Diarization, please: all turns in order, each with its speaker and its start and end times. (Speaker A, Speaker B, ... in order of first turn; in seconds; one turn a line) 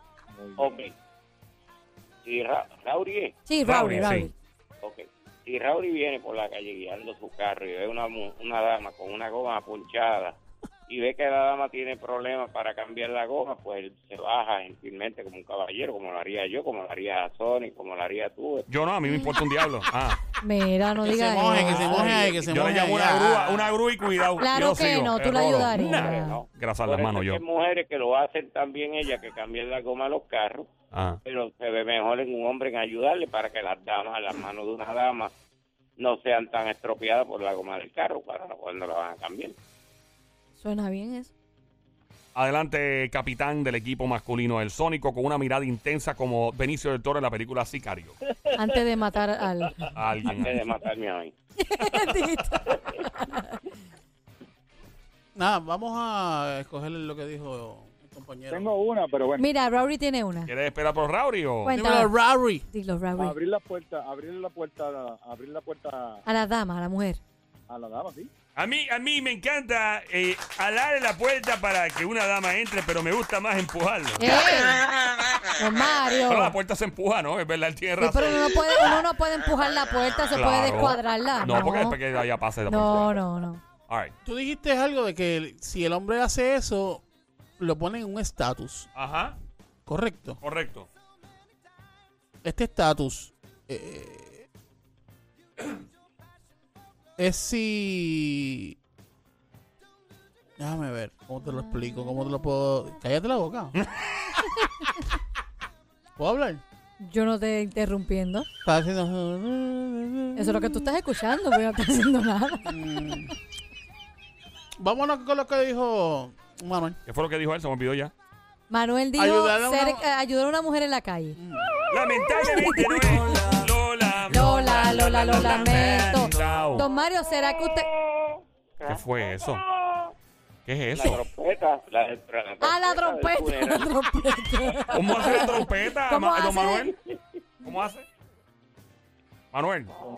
Speaker A: 0.3-0.7
Speaker B: 0.6-0.9
Speaker B: 2.2-3.3
Speaker C: 3.5-4.3
Speaker D: 3.6-4.3
Speaker B: 4.8-10.3
Speaker B: 10.9-18.7
Speaker D: 18.7-20.2
Speaker C: 20.4-22.3
Speaker E: 21.0-23.8
Speaker D: 21.6-27.4
Speaker B: 22.0-22.4
Speaker C: 24.4-26.4
Speaker B: 25.7-30.7
Speaker D: 30.9-31.2
Speaker B: 31.2-35.3
Speaker B: 36.0-39.5
Speaker C: 40.6-41.3
Speaker D: 42.3-48.1
Speaker C: 48.5-49.9
Speaker D: 49.9-50.6
Speaker B: 50.3-51.3
Speaker C: 51.6-53.6
Speaker E: 55.3-58.7
Speaker A: 58.5-59.5
Speaker C: 59.4-60.5
Speaker D: 60.5-61.8
Speaker C: 61.6-62.1
Speaker E: 61.7-62.6
Speaker C: 62.7-63.3
Speaker A: 63.2-66.2
Speaker C: 66.2-67.2
Speaker A: 67.7-68.3
Speaker D: 68.5-74.7
Speaker C: 74.2-74.8
Speaker C: 75.5-76.5
Speaker D: 76.2-78.8
Speaker C: 78.0-82.0
Speaker D: 80.3-83.2
Speaker C: 82.7-83.6
Speaker E: 84.2-87.0
Speaker E: 87.6-88.9
Speaker D: 88.9-89.3
Speaker E: 89.8-90.4
Speaker D: 90.4-90.9
Speaker E: 92.4-94.5
Speaker E: 97.2-98.7
Speaker E: 100.6-103.8
Speaker C: 101.4-102.2
Speaker E: 106.2-106.6
Speaker C: 107.0-108.5
Speaker E: 108.6-110.9
Speaker C: 110.3-112.8
Speaker E: 112.7-113.3
Speaker E: 114.8-117.0
Speaker D: 117.1-118.1
Speaker C: 118.7-121.4
Speaker E: 119.2-120.0
Speaker E: 121.3-121.7
Speaker D: 121.9-126.9
Speaker C: 122.6-123.4
Speaker C: 124.3-127.9
Speaker B: 128.1-129.0
Speaker D: 128.8-129.6
Speaker B: 129.7-130.1
Speaker D: 130.7-131.2
Speaker B: 130.9-133.9
Speaker C: 132.6-136.9
Speaker D: 134.9-136.9
Speaker D: 137.6-138.1
Speaker D: 139.5-139.9